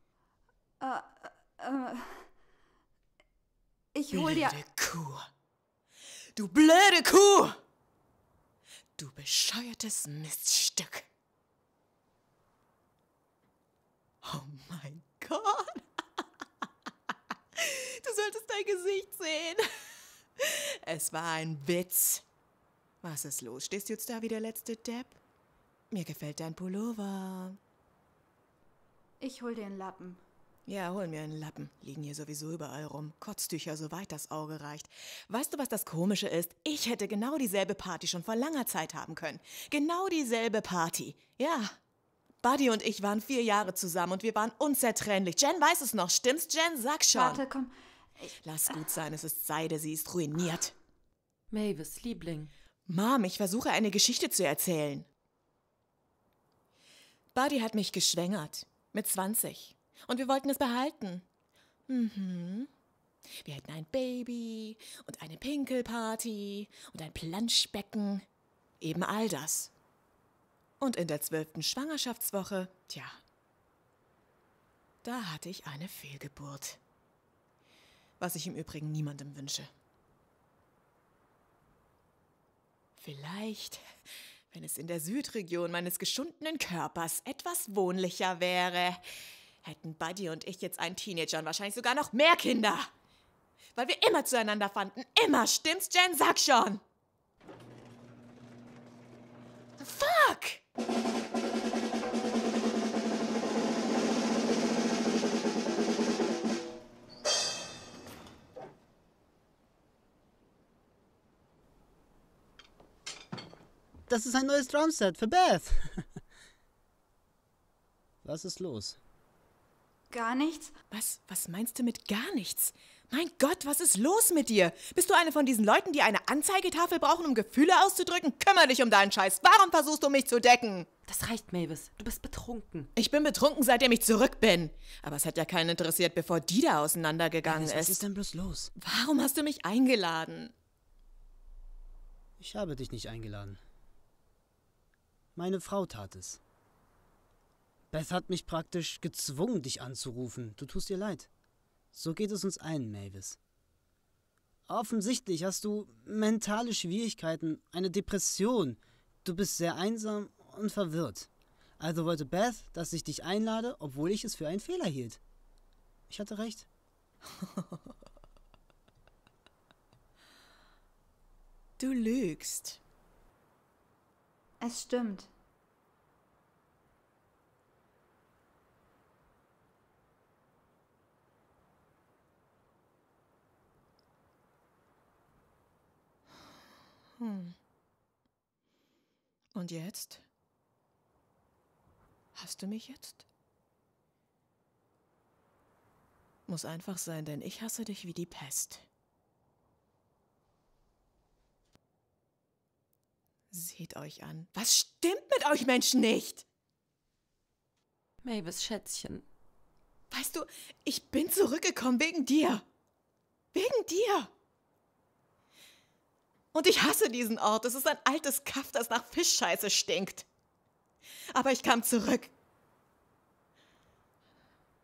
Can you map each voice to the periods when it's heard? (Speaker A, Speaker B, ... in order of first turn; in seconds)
Speaker A: 0.8-2.3, 3.9-4.6, 29.2-30.2, 47.1-48.3, 120.1-120.7, 174.6-175.3
Speaker B: 4.1-5.3, 6.3-7.6, 9.0-11.1, 14.2-15.8, 17.6-19.6, 20.4-22.2, 23.0-25.2, 25.9-27.6, 30.7-41.7, 42.4-47.4, 48.4-50.8, 52.9-55.1, 57.3-61.2, 61.9-62.7, 63.4-68.3, 68.8-69.7, 70.8-73.2, 75.0-76.8, 78.2-79.7, 83.0-83.8, 84.5-89.0, 89.6-92.9, 93.8-96.8, 99.8-100.6, 120.9-130.9, 133.0-138.0, 138.8-140.5, 167.4-167.7, 171.8-172.8, 187.2-187.6, 189.5-190.2, 192.3-193.2, 196.5-198.9, 203.5-206.5, 210.1-212.6, 213.5-214.3, 216.5-220.3, 221.3-222.3
Speaker C: 51.5-52.5, 131.1-132.9, 208.2-209.3
Speaker D: 114.1-116.0, 118.2-119.0, 137.4-138.7, 142.4-143.6, 145.3-146.4, 147.9-151.3, 151.9-153.4, 154.7-161.3, 161.8-165.2, 166.1-166.7